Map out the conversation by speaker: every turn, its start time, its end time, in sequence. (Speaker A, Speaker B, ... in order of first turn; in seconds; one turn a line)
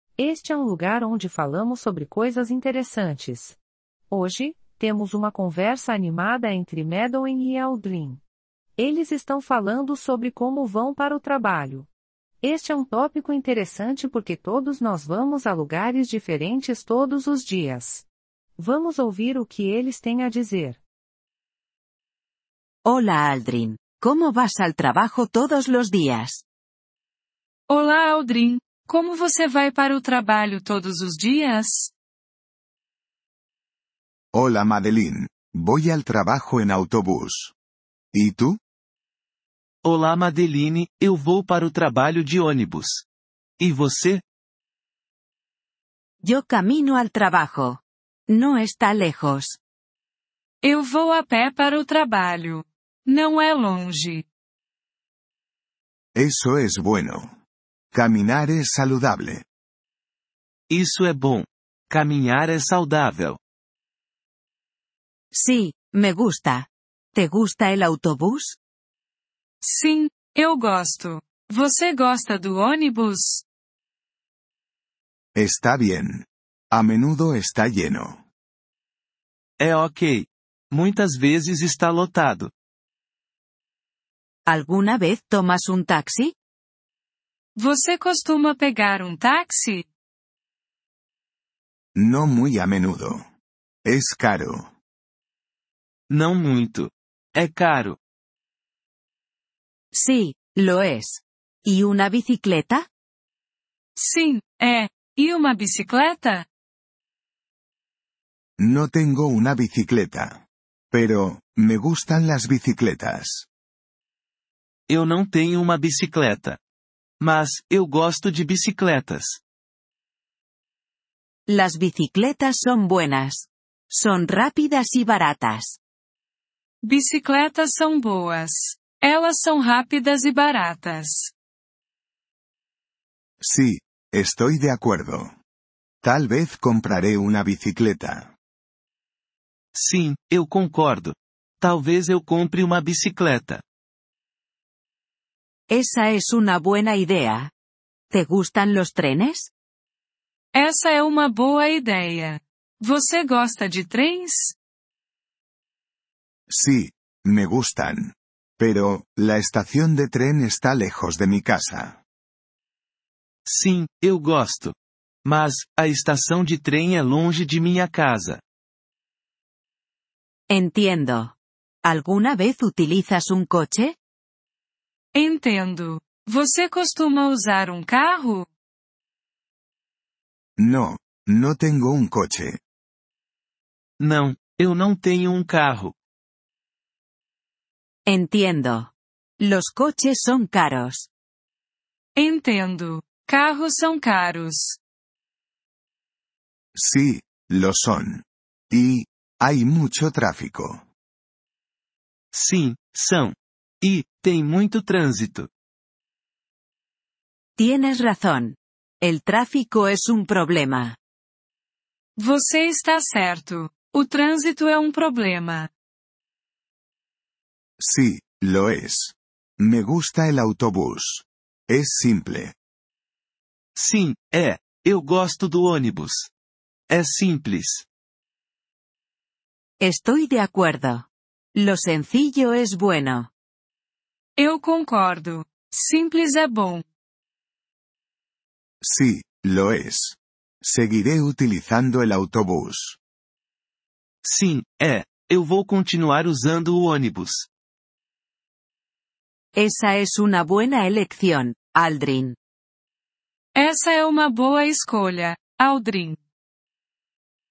Speaker A: 0.2-3.6
Speaker A: 4.1-8.2
Speaker A: 8.8-11.9
Speaker A: 12.4-18.1
Speaker A: 18.6-20.8
Speaker B: 22.8-26.4
Speaker C: 27.7-31.9
Speaker D: 34.3-37.5
Speaker D: 38.1-38.6
Speaker E: 39.8-43.0
Speaker E: 43.6-44.2
Speaker B: 46.2-49.6
Speaker C: 50.6-54.2
Speaker D: 56.1-57.3
Speaker D: 57.9-59.4
Speaker E: 60.7-63.4
Speaker B: 65.3-68.6
Speaker C: 69.6-73.4
Speaker D: 75.3-78.2
Speaker E: 79.6-82.5
Speaker B: 84.5-86.3
Speaker C: 87.5-89.9
Speaker D: 91.9-93.2
Speaker D: 93.8-94.7
Speaker E: 96.1-98.0
Speaker B: 99.9-102.9
Speaker C: 104.0-106.5
Speaker D: 108.6-113.5
Speaker E: 114.9-116.6
Speaker E: 117.2-119.4
Speaker B: 121.5-125.8
Speaker C: 126.8-131.3
Speaker D: 133.4-135.3
Speaker D: 136.0-138.3
Speaker E: 139.7-143.6
Speaker B: 145.7-147.5
Speaker B: 148.1-149.5
Speaker C: 150.5-154.6
Speaker D: 156.5-162.0
Speaker E: 163.4-168.4
Speaker B: 170.5-173.9
Speaker C: 175.1-178.5
Speaker D: 180.6-182.6
Speaker E: 184.0-185.9
Speaker B: 188.1-191.1
Speaker C: 192.2-194.8
Speaker D: 196.7-200.8
Speaker E: 202.3-205.5
Speaker B: 207.6-211.0
Speaker C: 212.2-215.7
Speaker D: 217.8-222.5
Speaker E: 223.8-226.3
Speaker E: 226.9-227.9
Speaker B: 229.8-233.3
Speaker C: 234.4-236.8
Speaker D: 238.8-243.0
Speaker E: 244.2-247.5
Speaker B: 249.6-252.3
Speaker C: 253.6-256.2